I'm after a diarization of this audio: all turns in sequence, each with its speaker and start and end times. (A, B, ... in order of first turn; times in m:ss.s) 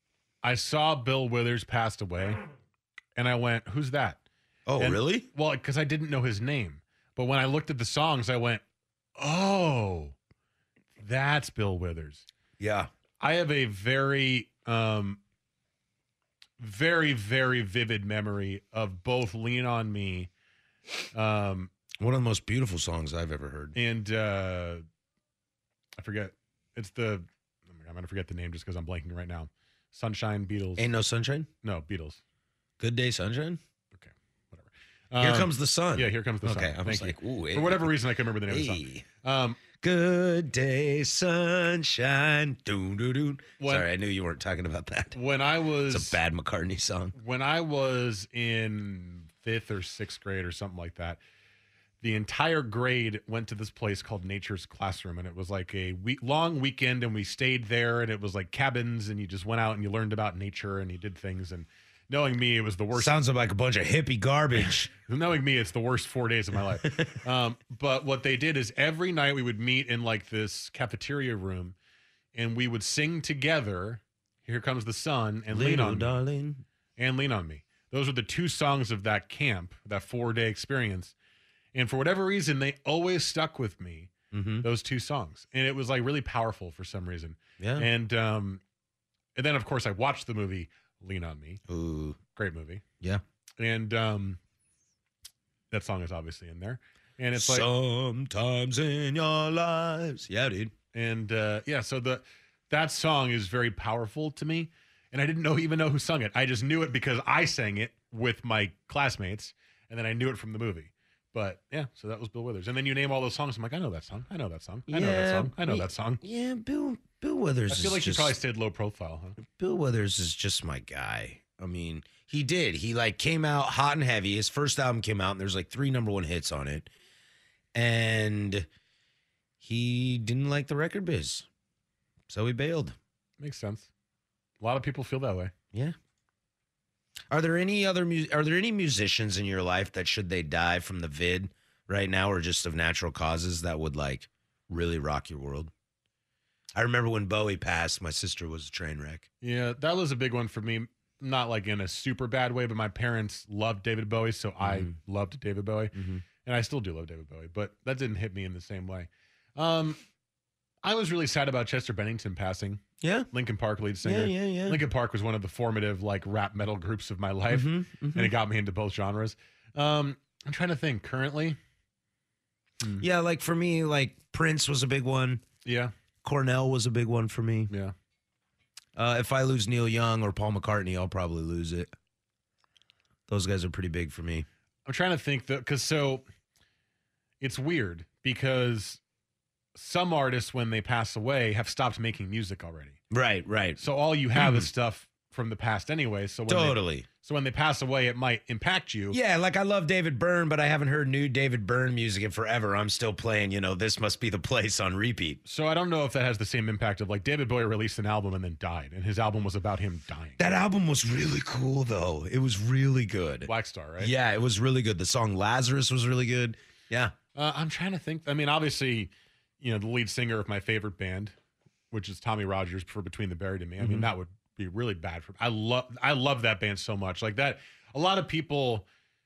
0:00.4-0:02.4 A
0:03.2-0:04.2 A
0:04.7-0:05.3 B
0:04.8-0:08.6 A
0:09.2-0:10.2 A
0:11.0-0:12.3 A
0:12.6-0:12.9 B
0:13.2-0:15.2 A
0:16.6-0:20.3 A
0:21.1-0:21.7 A
0:22.0-0:23.8 B
0:23.8-0:24.8 A
0:26.0-0:30.9 A
0:30.8-0:31.5 B
0:31.6-0:32.2 A
0:32.8-0:33.6 B
0:33.9-0:39.6 A
0:35.2-0:38.0 B
0:38.5-0:39.1 B
0:39.8-0:45.2 B
0:43.6-0:43.9 A
0:45.2-0:46.2 A
0:45.9-0:47.2 B
0:47.2-0:51.2 A
0:52.0-1:03.2 A
1:02.9-1:04.9 B
1:04.9-1:11.8 A
1:06.8-1:07.2 B
1:12.3-1:16.2 A
1:15.5-1:16.6 B
1:17.0-1:21.2 A
1:21.7-1:28.6 A
1:24.3-1:24.7 B
1:27.6-1:27.9 B
1:29.4-1:31.6 A
1:31.7-1:32.2 B
1:32.4-1:32.8 A
1:33.6-1:34.4 A
1:35.7-1:37.7 A
1:37.4-1:40.7 B
1:40.9-1:56.2 A
1:54.9-1:58.4 B
1:57.7-1:59.4 A
1:59.4-2:06.9 B
2:07.7-2:08.7 B
2:09.6-2:11.5 B
2:12.3-2:13.0 B
2:13.4-2:13.9 A
2:14.6-2:15.5 A
2:17.3-2:25.7 B
2:26.8-2:29.3 B
2:29.4-2:40.0 A
2:34.6-2:34.9 B
2:35.9-2:36.2 B
2:40.8-2:42.8 A
2:43.0-2:43.3 B
2:43.3-2:51.6 A
2:44.0-2:44.8 B
2:47.5-2:48.3 B
2:53.0-2:55.4 B
2:55.6-2:55.9 A
2:56.2-2:57.7 B
2:57.7-2:57.9 A
2:59.0-3:01.9 B
3:03.3-3:04.5 B
3:04.9-3:06.2 A
3:07.4-3:09.0 A
3:09.8-3:13.0 A
3:13.1-3:13.8 B
3:13.8-3:19.2 A
3:14.4-3:14.7 B
3:16.5-3:17.1 B
3:19.1-3:25.4 B
3:25.5-3:30.4 A
3:30.4-3:37.2 B
3:33.4-3:34.1 A
3:37.4-3:41.3 A
3:41.9-3:48.9 A
3:43.8-3:44.1 B